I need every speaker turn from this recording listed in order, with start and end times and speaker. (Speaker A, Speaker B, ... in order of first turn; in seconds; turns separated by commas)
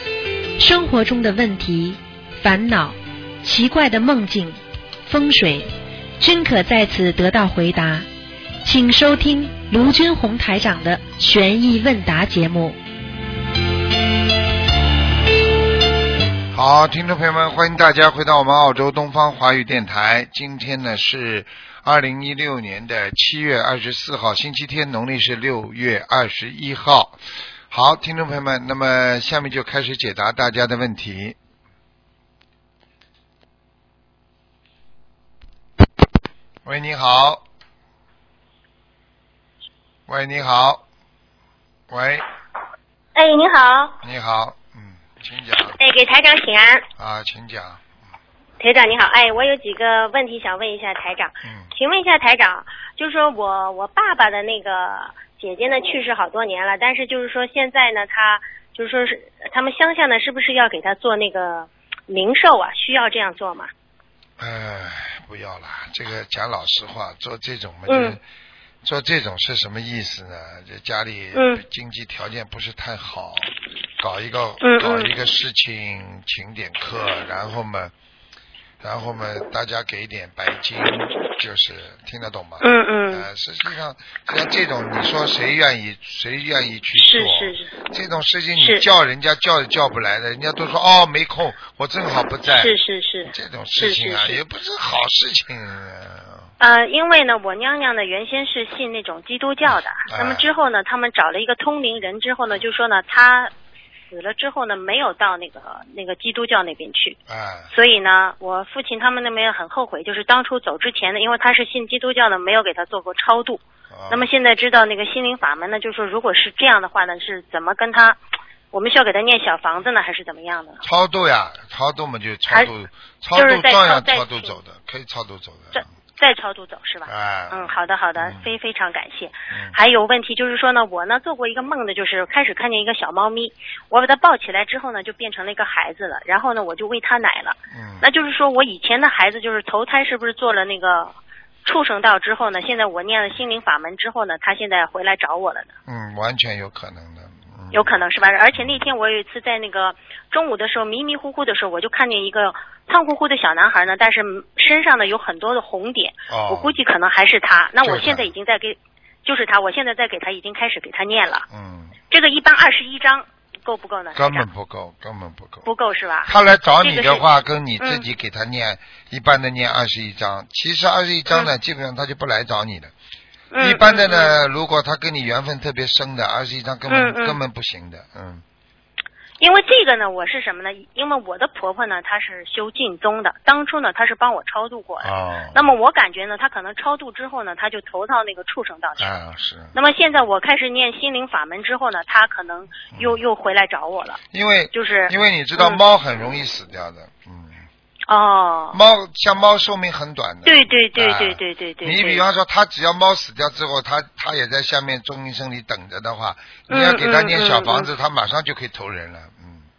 Speaker A: 0.6-5.7, Speaker A: 6.2-8.1, Speaker A: 8.6-12.8, Speaker B: 16.5-27.2, Speaker B: 27.7-31.4, Speaker B: 36.6-37.4, Speaker B: 40.1-40.8, Speaker B: 41.9-42.2, Speaker C: 43.1-44.0, Speaker B: 44.0-45.8, Speaker C: 45.6-46.8, Speaker B: 47.0-47.8, Speaker C: 48.6-63.7, Speaker B: 51.4-51.7, Speaker B: 64.4-68.2, Speaker C: 67.9-68.2, Speaker B: 68.8-77.9, Speaker C: 71.3-71.6, Speaker C: 74.6-75.1, Speaker B: 78.8-92.7, Speaker C: 82.6-83.2, Speaker C: 87.0-87.7, Speaker C: 88.6-88.9, Speaker C: 92.5-94.4, Speaker B: 93.3-96.5, Speaker C: 96.6-103.5, Speaker B: 100.1-100.5, Speaker C: 104.1-107.2, Speaker B: 107.3-107.7, Speaker C: 107.7-118.2, Speaker B: 113.9-114.3, Speaker C: 118.7-120.8, Speaker B: 120.8-125.9, Speaker C: 123.3-124.6, Speaker C: 125.7-145.7, Speaker B: 127.0-128.5, Speaker B: 129.5-129.8, Speaker B: 137.7-138.0, Speaker B: 145.8-148.0, Speaker C: 147.7-161.4, Speaker B: 156.3-156.8, Speaker B: 157.8-158.3, Speaker B: 161.5-162.0, Speaker C: 162.1-164.5, Speaker B: 164.1-165.7, Speaker C: 165.6-167.2, Speaker B: 166.2-172.9, Speaker C: 167.8-168.1, Speaker C: 173.5-174.4, Speaker B: 173.6-178.4, Speaker C: 176.9-177.4, Speaker C: 179.4-189.1, Speaker B: 185.0-185.7, Speaker B: 189.0-189.8, Speaker C: 189.7-194.2, Speaker B: 192.9-193.2, Speaker B: 194.3-197.6, Speaker C: 194.7-195.8, Speaker C: 198.1-198.8, Speaker B: 198.7-209.7, Speaker C: 200.4-202.2, Speaker C: 206.7-207.9